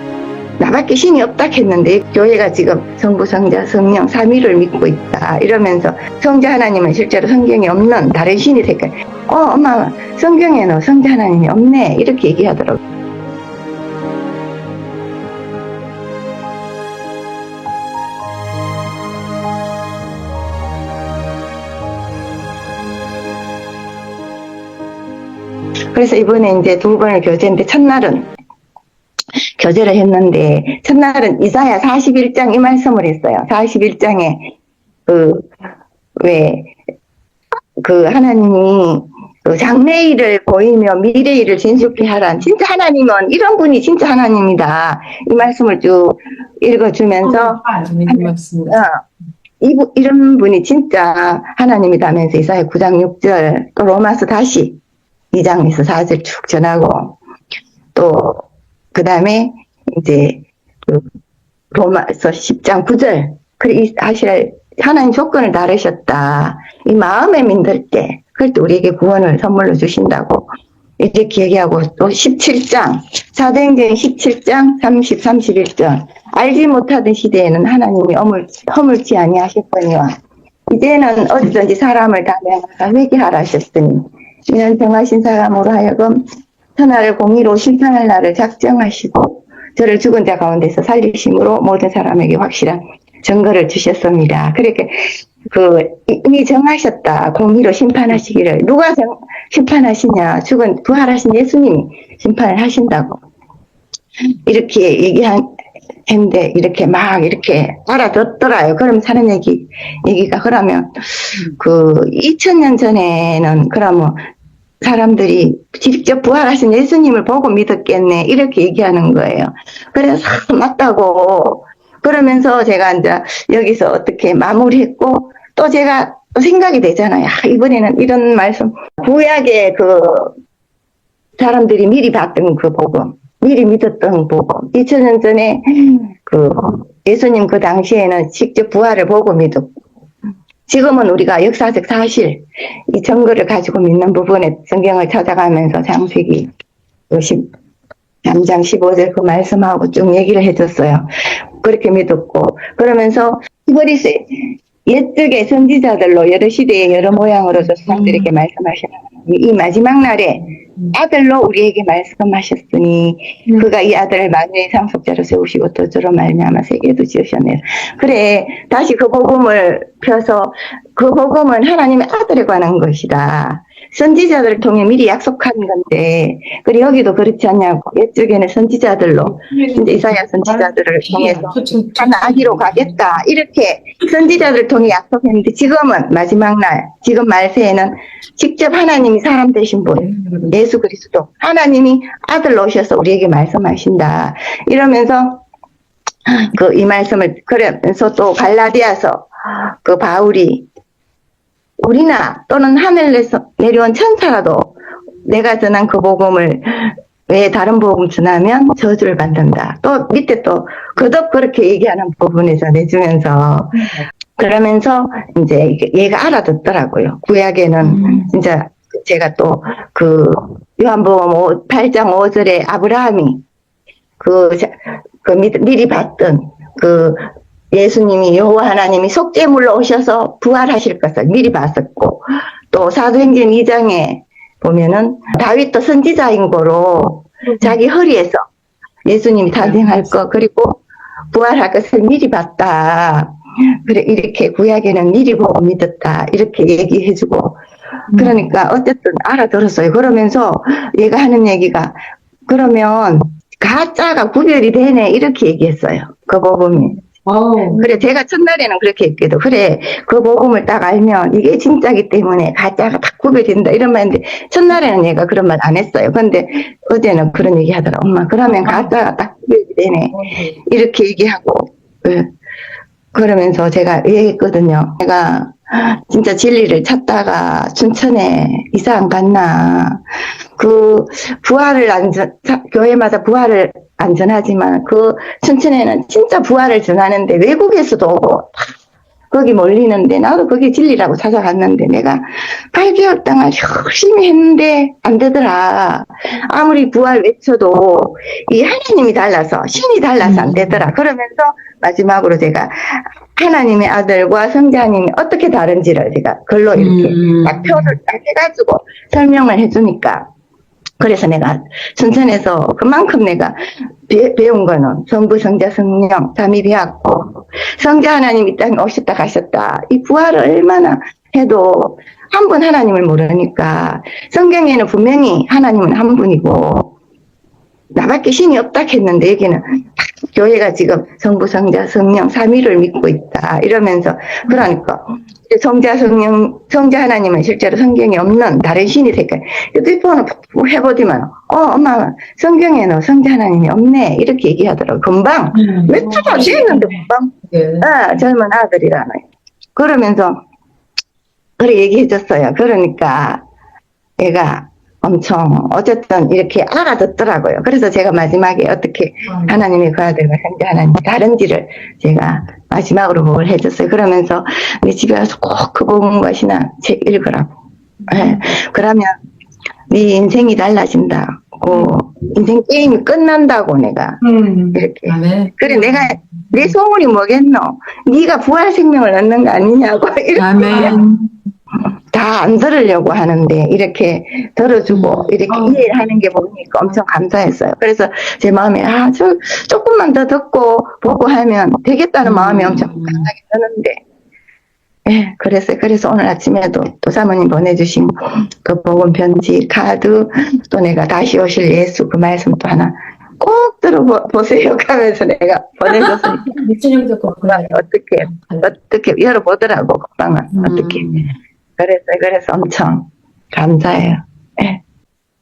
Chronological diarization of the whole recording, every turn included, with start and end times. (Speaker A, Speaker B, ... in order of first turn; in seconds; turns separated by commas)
Speaker A: 0.6-12.8, Speaker A: 25.9-28.3, Speaker A: 29.6-34.5, Speaker A: 35.1-35.5, Speaker A: 36.2-36.7, Speaker A: 37.8-49.0, Speaker B: 47.2-48.8, Speaker A: 49.6-54.8, Speaker A: 55.3-57.2, Speaker A: 58.0-61.1, Speaker A: 61.7-70.5, Speaker A: 71.0-80.1, Speaker A: 80.7-95.0, Speaker A: 95.5-103.2, Speaker A: 104.5-105.5, Speaker A: 106.1-114.2, Speaker A: 114.8-130.3, Speaker A: 131.4-139.7, Speaker A: 140.7-146.5, Speaker A: 147.1-147.5, Speaker A: 148.2-151.1, Speaker A: 151.6-195.4, Speaker B: 157.9-158.3, Speaker B: 179.5-179.8, Speaker B: 180.5-182.9, Speaker B: 190.1-190.5, Speaker A: 196.3-200.7, Speaker A: 201.8-204.7, Speaker A: 205.2-223.4, Speaker B: 217.9-218.2, Speaker A: 224.2-238.4, Speaker A: 239.1-247.6, Speaker B: 239.6-240.1, Speaker B: 248.1-248.4, Speaker A: 248.1-257.0, Speaker B: 257.1-257.9, Speaker A: 257.8-272.3, Speaker B: 268.6-268.9, Speaker B: 270.1-270.6, Speaker A: 273.1-280.0, Speaker A: 280.6-288.7, Speaker A: 289.3-310.3, Speaker B: 300.2-300.8, Speaker B: 306.8-307.9, Speaker A: 311.0-326.9, Speaker A: 327.9-349.2, Speaker B: 345.6-347.9, Speaker A: 349.8-350.4, Speaker A: 351.6-353.4, Speaker A: 354.2-367.5, Speaker B: 359.3-359.6, Speaker B: 368.1-368.4, Speaker A: 368.1-369.1, Speaker A: 369.9-374.2, Speaker B: 374.2-376.1, Speaker A: 374.7-381.0, Speaker B: 380.4-381.3, Speaker A: 381.8-394.0, Speaker B: 384.9-386.0, Speaker B: 392.2-393.3, Speaker A: 395.1-406.6, Speaker B: 405.9-408.6, Speaker A: 407.5-411.1, Speaker B: 410.5-411.3, Speaker A: 411.8-414.8